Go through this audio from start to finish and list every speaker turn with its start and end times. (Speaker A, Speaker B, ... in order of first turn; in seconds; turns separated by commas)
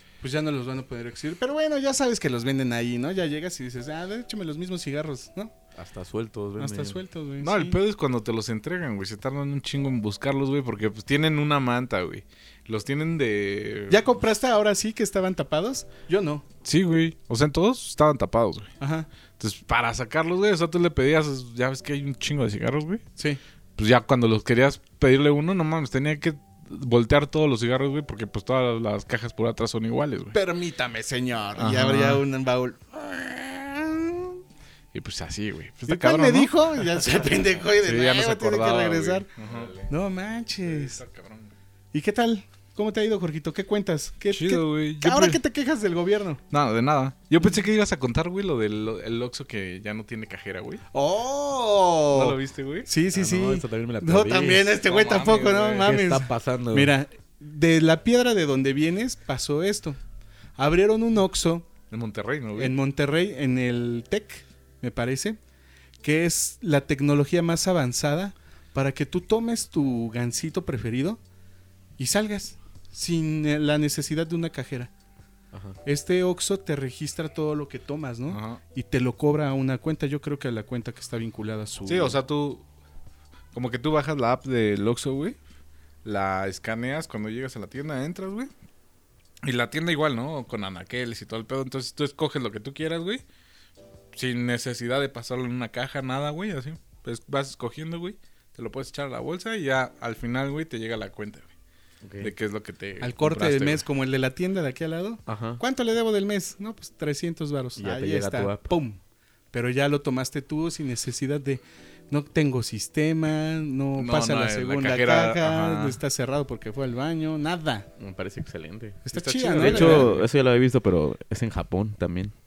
Speaker A: 0.2-5.5, Speaker B: 5.8-7.0, Speaker A: 6.6-7.8, Speaker C: 7.4-14.2, Speaker A: 13.9-16.4, Speaker C: 16.6-18.7, Speaker A: 18.8-19.1, Speaker C: 19.4-23.0, Speaker C: 23.8-30.4, Speaker A: 30.3-34.4, Speaker C: 31.6-32.2, Speaker C: 34.9-39.9, Speaker A: 35.9-39.3, Speaker B: 39.4-39.8, Speaker A: 39.9-41.0, Speaker C: 40.6-41.5, Speaker A: 41.9-46.4, Speaker C: 44.3-45.4, Speaker C: 46.5-50.8, Speaker A: 50.9-60.0, Speaker C: 52.1-52.9, Speaker B: 53.1-54.8, Speaker C: 54.8-56.0, Speaker B: 55.8-56.9, Speaker A: 60.6-61.7, Speaker C: 61.9-62.8, Speaker A: 62.5-65.4, Speaker A: 66.0-71.2, Speaker A: 72.0-74.9, Speaker B: 75.5-75.8, Speaker A: 75.8-82.2, Speaker C: 78.3-78.6, Speaker C: 81.9-82.6, Speaker C: 83.5-85.4, Speaker C: 86.0-88.5, Speaker C: 89.4-93.2, Speaker C: 94.1-101.5, Speaker B: 102.0-102.3, Speaker C: 102.2-103.8, Speaker A: 103.0-109.0, Speaker B: 105.3-105.6, Speaker B: 107.8-108.7, Speaker A: 109.5-117.9, Speaker C: 114.0-116.0, Speaker B: 118.0-119.0, Speaker A: 119.0-120.1, Speaker C: 119.1-120.3, Speaker B: 119.5-122.3